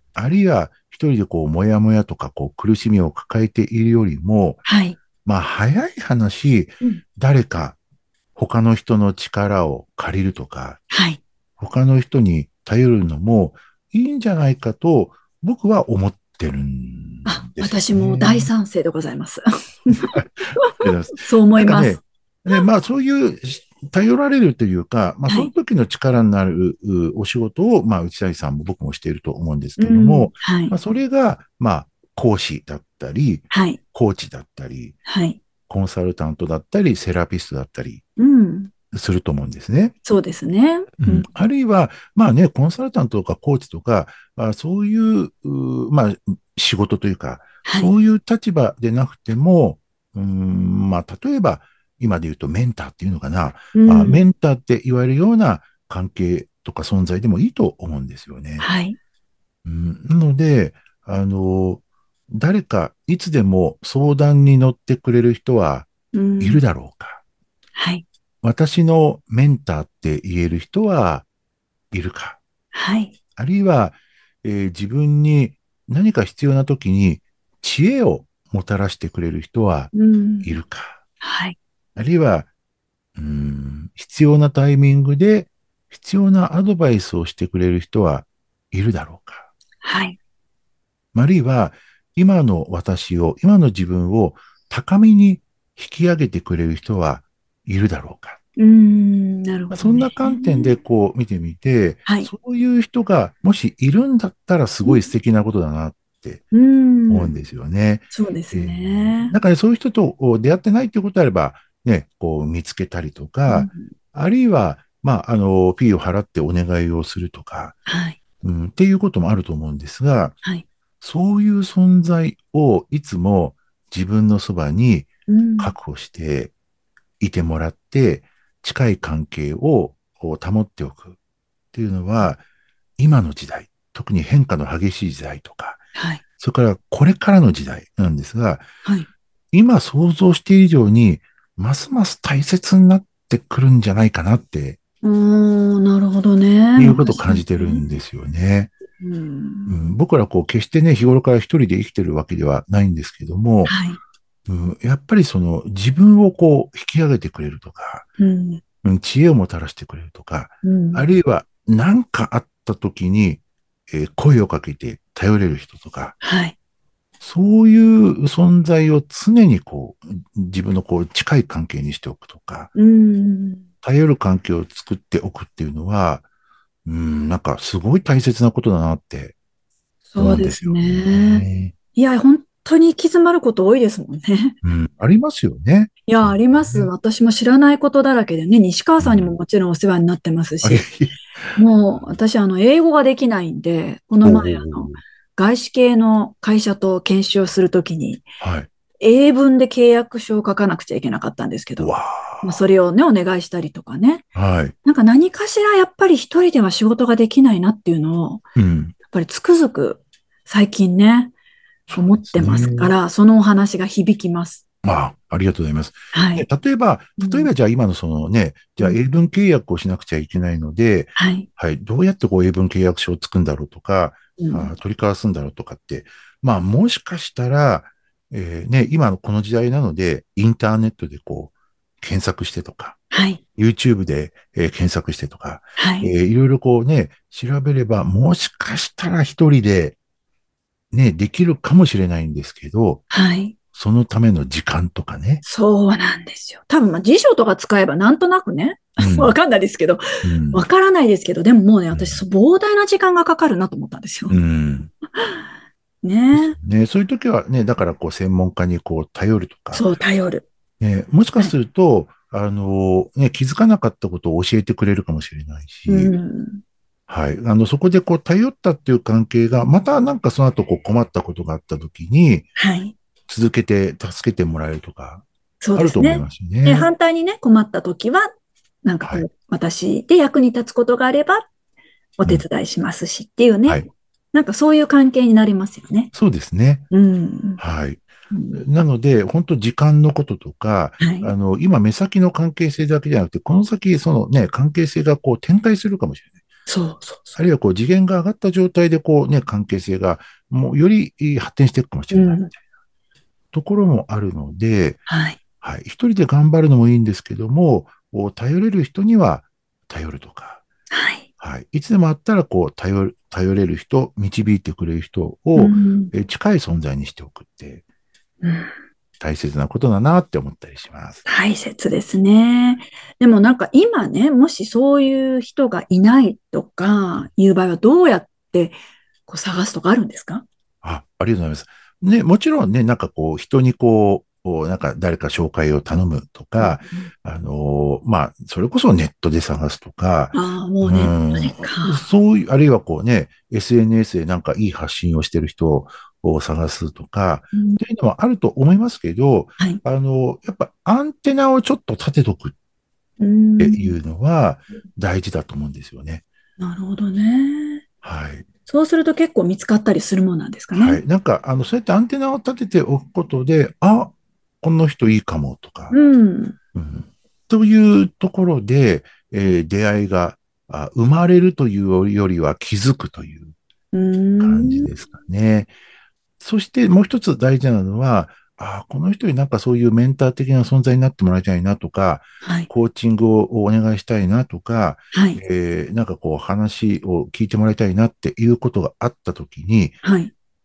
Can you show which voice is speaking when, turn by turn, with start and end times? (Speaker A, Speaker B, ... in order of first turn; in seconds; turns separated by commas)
Speaker A: 0.1-4.6, Speaker B: 4.6-5.0, Speaker A: 5.2-7.8, Speaker A: 8.3-10.8, Speaker B: 10.9-11.2, Speaker A: 11.6-18.5, Speaker B: 17.2-22.0, Speaker A: 19.9-35.0, Speaker B: 29.8-30.7, Speaker B: 33.5-33.8, Speaker B: 35.0-35.4, Speaker A: 35.7-38.0, Speaker B: 38.2-38.7, Speaker A: 38.9-39.9, Speaker B: 40.0-41.3, Speaker A: 41.0-58.7, Speaker B: 47.6-47.9, Speaker B: 53.7-54.2, Speaker B: 58.6-59.0, Speaker A: 59.6-67.2, Speaker B: 66.1-66.6, Speaker B: 67.8-68.0, Speaker A: 68.4-71.3, Speaker A: 71.9-72.4, Speaker B: 72.7-73.1, Speaker A: 73.3-79.9, Speaker B: 79.9-80.5, Speaker A: 80.4-81.0, Speaker B: 81.2-81.5, Speaker A: 82.0-82.5, Speaker A: 83.2-89.5, Speaker B: 89.8-90.2, Speaker A: 91.1-98.4, Speaker B: 98.6-100.7, Speaker A: 99.7-106.4, Speaker B: 102.0-102.3, Speaker B: 106.5-107.3, Speaker A: 107.1-117.7, Speaker B: 108.1-109.3, Speaker B: 113.5-113.8, Speaker B: 117.8-118.2, Speaker A: 118.4-120.3, Speaker A: 121.0-126.5, Speaker B: 125.3-125.7, Speaker A: 127.2-131.2, Speaker A: 131.7-132.4, Speaker A: 133.0-135.8, Speaker B: 135.9-136.2, Speaker A: 136.4-138.7, Speaker A: 139.5-144.8, Speaker B: 145.0-147.8, Speaker A: 146.8-148.7, Speaker B: 149.0-149.7, Speaker A: 149.7-153.7, Speaker B: 153.6-154.0, Speaker A: 154.5-158.1, Speaker B: 158.2-158.6, Speaker A: 158.8-166.1, Speaker B: 160.6-161.1, Speaker B: 166.2-166.5, Speaker A: 167.2-172.7, Speaker B: 172.7-173.6, Speaker A: 173.8-176.2, Speaker A: 176.8-179.3, Speaker B: 180.1-181.4, Speaker A: 180.2-181.7, Speaker B: 181.9-184.6, Speaker A: 184.6-186.9, Speaker B: 186.1-190.8, Speaker A: 189.0-189.3, Speaker A: 190.6-192.2, Speaker B: 191.6-198.2, Speaker A: 194.2-195.0, Speaker A: 198.4-198.7, Speaker B: 199.0-204.2, Speaker A: 201.8-202.6, Speaker A: 204.3-204.7, Speaker B: 204.8-208.4, Speaker A: 208.6-208.9, Speaker B: 209.1-211.3, Speaker A: 211.9-212.9, Speaker B: 211.9-214.6, Speaker A: 214.8-233.0, Speaker B: 216.1-216.4, Speaker B: 217.2-217.5, Speaker B: 221.2-221.5, Speaker B: 224.4-224.7, Speaker B: 233.1-233.4, Speaker A: 233.6-240.0, Speaker B: 235.8-236.1, Speaker A: 240.9-243.0, Speaker B: 243.1-243.5, Speaker A: 243.7-245.4, Speaker B: 245.4-254.4, Speaker A: 249.0-249.4, Speaker A: 250.2-250.6, Speaker A: 251.9-252.2, Speaker A: 254.3-254.9, Speaker B: 255.2-255.4, Speaker B: 256.0-256.6, Speaker A: 256.3-259.9, Speaker B: 259.7-260.4, Speaker A: 260.8-266.1, Speaker B: 265.9-266.6, Speaker A: 267.1-272.5, Speaker B: 272.6-272.9, Speaker A: 273.3-276.9, Speaker B: 275.6-278.3, Speaker B: 278.8-281.4, Speaker A: 279.0-279.3, Speaker B: 282.2-286.1, Speaker A: 286.1-286.8, Speaker B: 286.9-287.6, Speaker A: 287.6-296.3, Speaker B: 288.3-288.6, Speaker B: 291.0-291.3, Speaker B: 296.6-297.4, Speaker A: 297.3-302.5, Speaker B: 302.1-302.5, Speaker A: 303.5-305.0, Speaker B: 305.1-305.4, Speaker A: 305.6-310.6, Speaker B: 310.9-311.2, Speaker A: 311.4-317.8, Speaker B: 315.6-316.1, Speaker B: 318.4-318.7, Speaker A: 319.2-321.2, Speaker B: 321.2-330.4, Speaker A: 330.8-352.5, Speaker B: 336.6-337.1, Speaker B: 340.3-342.0, Speaker B: 347.5-347.8, Speaker B: 353.2-353.9, Speaker A: 353.6-356.2, Speaker B: 356.6-357.8, Speaker A: 358.0-358.5, Speaker B: 358.7-361.0, Speaker A: 360.7-365.9, Speaker B: 365.9-366.6, Speaker A: 366.7-373.5, Speaker B: 373.9-374.9, Speaker A: 374.4-375.7, Speaker A: 376.4-390.0, Speaker B: 382.4-382.7, Speaker B: 385.1-385.4, Speaker B: 390.0-390.3